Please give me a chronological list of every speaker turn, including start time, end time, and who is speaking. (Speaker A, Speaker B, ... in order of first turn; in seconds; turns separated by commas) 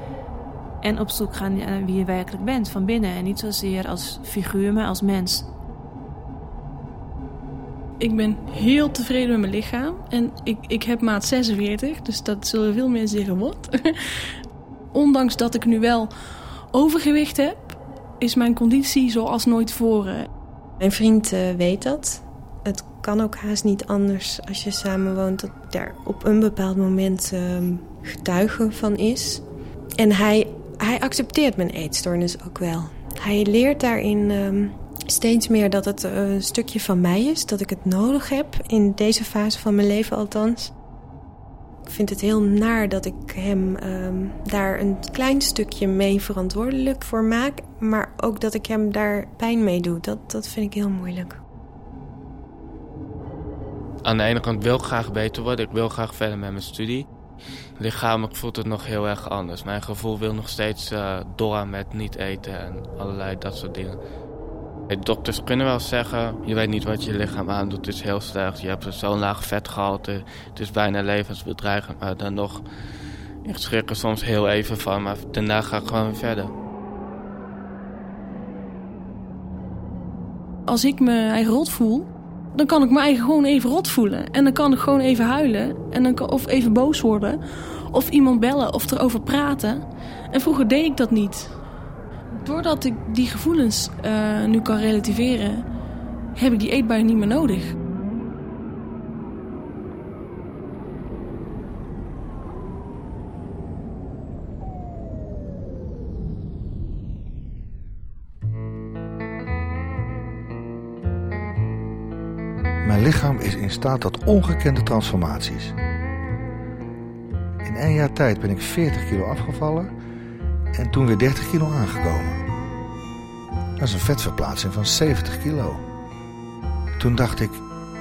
Speaker A: 0.8-5.5, Speaker B: 8.0-13.9, Speaker B: 14.9-16.1, Speaker B: 16.7-20.3, Speaker C: 20.8-29.4, Speaker C: 30.0-40.7, Speaker C: 41.9-51.4, Speaker D: 54.0-57.0, Speaker D: 57.8-64.0, Speaker D: 64.9-72.6, Speaker D: 73.4-76.5, Speaker B: 80.7-91.5, Speaker B: 92.4-95.6, Speaker B: 96.3-97.7, Speaker E: 112.8-115.8, Speaker E: 117.6-119.9, Speaker E: 120.7-122.4, Speaker E: 123.8-125.8, Speaker E: 127.0-127.6